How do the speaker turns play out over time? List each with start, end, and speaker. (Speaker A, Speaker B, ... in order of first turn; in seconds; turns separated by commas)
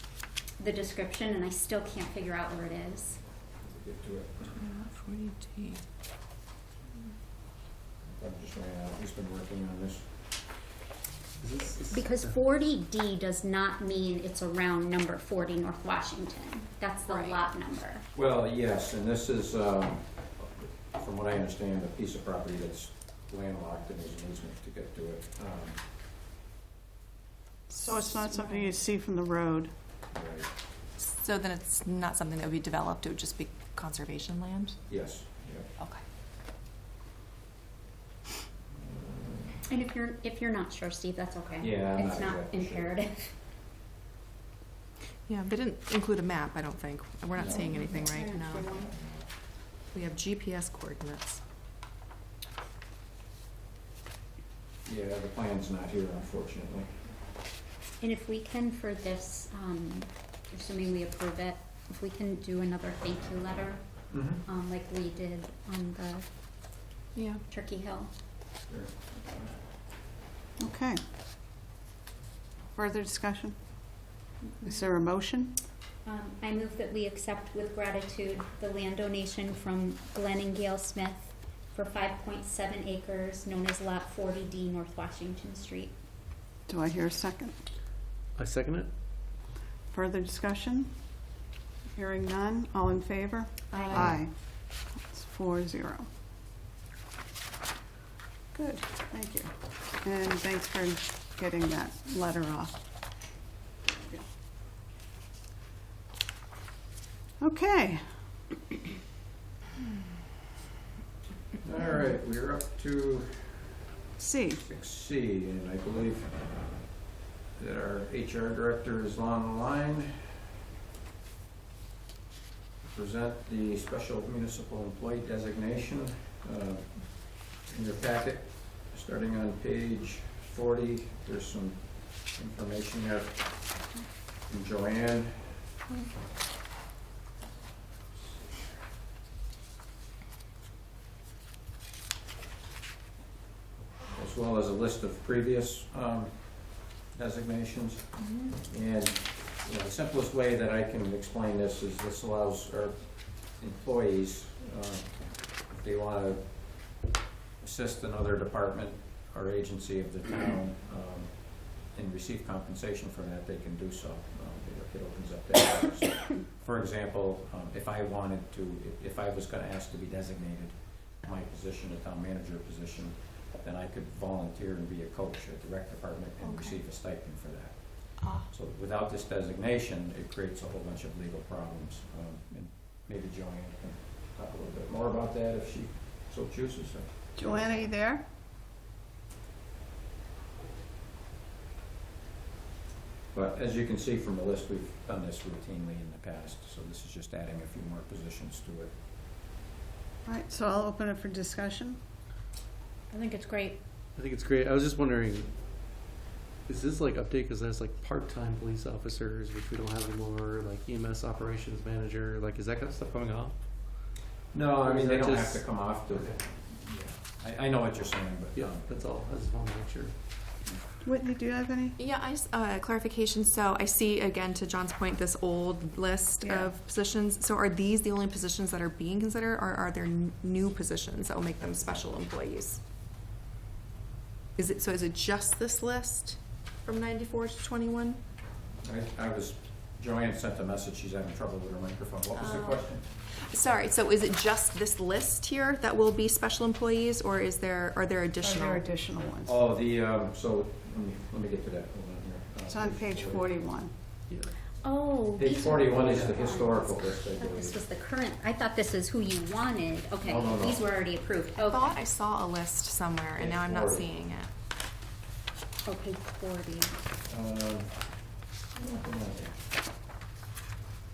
Speaker A: 0.6-3.2, Speaker B: 3.6-4.5, Speaker C: 4.5-5.8, Speaker B: 8.1-10.2, Speaker D: 11.4-12.3, Speaker A: 11.9-18.1, Speaker C: 17.1-17.4, Speaker B: 18.1-25.8, Speaker E: 27.7-29.7, Speaker A: 27.9-28.8, Speaker B: 30.1-30.5, Speaker C: 31.0-34.8, Speaker B: 34.9-35.7, Speaker B: 38.9-39.5, Speaker A: 39.7-43.3, Speaker B: 41.6-43.0, Speaker C: 45.2-48.9, Speaker B: 47.4-49.3, Speaker E: 48.1-48.9, Speaker C: 49.9-51.4, Speaker B: 54.9-57.1, Speaker A: 58.0-66.2, Speaker B: 64.1-64.4, Speaker C: 67.1-67.4, Speaker A: 67.5-68.1, Speaker B: 68.7-69.5, Speaker E: 70.6-71.0, Speaker E: 72.7-73.6, Speaker E: 74.6-75.6, Speaker A: 76.0-85.9, Speaker E: 86.7-87.5, Speaker D: 88.3-88.9, Speaker E: 89.9-90.9, Speaker E: 91.9-94.3, Speaker C: 93.7-94.0, Speaker A: 93.7-94.1, Speaker E: 95.1-96.1, Speaker E: 98.5-102.7, Speaker E: 103.9-104.2, Speaker E: 107.4-108.0, Speaker B: 111.6-113.8, Speaker E: 114.2-114.6, Speaker B: 114.6-116.3, Speaker B: 117.6-120.3, Speaker B: 122.9-133.8, Speaker B: 134.5-135.5, Speaker B: 144.1-148.0, Speaker C: 148.2-148.5, Speaker B: 148.6-157.0, Speaker B: 157.6-187.8, Speaker E: 187.4-188.2, Speaker B: 193.3-198.9, Speaker E: 200.2-202.0, Speaker A: 203.1-203.8, Speaker D: 204.1-205.5, Speaker D: 206.7-214.1, Speaker B: 214.5-218.9, Speaker D: 214.8-216.4, Speaker D: 218.5-220.1, Speaker E: 221.0-222.0, Speaker C: 222.0-232.8, Speaker E: 226.4-226.7, Speaker C: 234.6-238.2, Speaker B: 238.8-243.0, Speaker C: 242.3-248.8, Speaker E: 248.4-249.6, Speaker B: 249.4-253.6, Speaker E: 252.7-253.9, Speaker A: 254.8-262.0, Speaker B: 255.4-257.8, Speaker B: 260.2-260.9, Speaker C: 261.6-264.5, Speaker B: 263.3-264.1, Speaker A: 265.8-266.9, Speaker B: 267.3-267.9, Speaker B: 268.7-269.6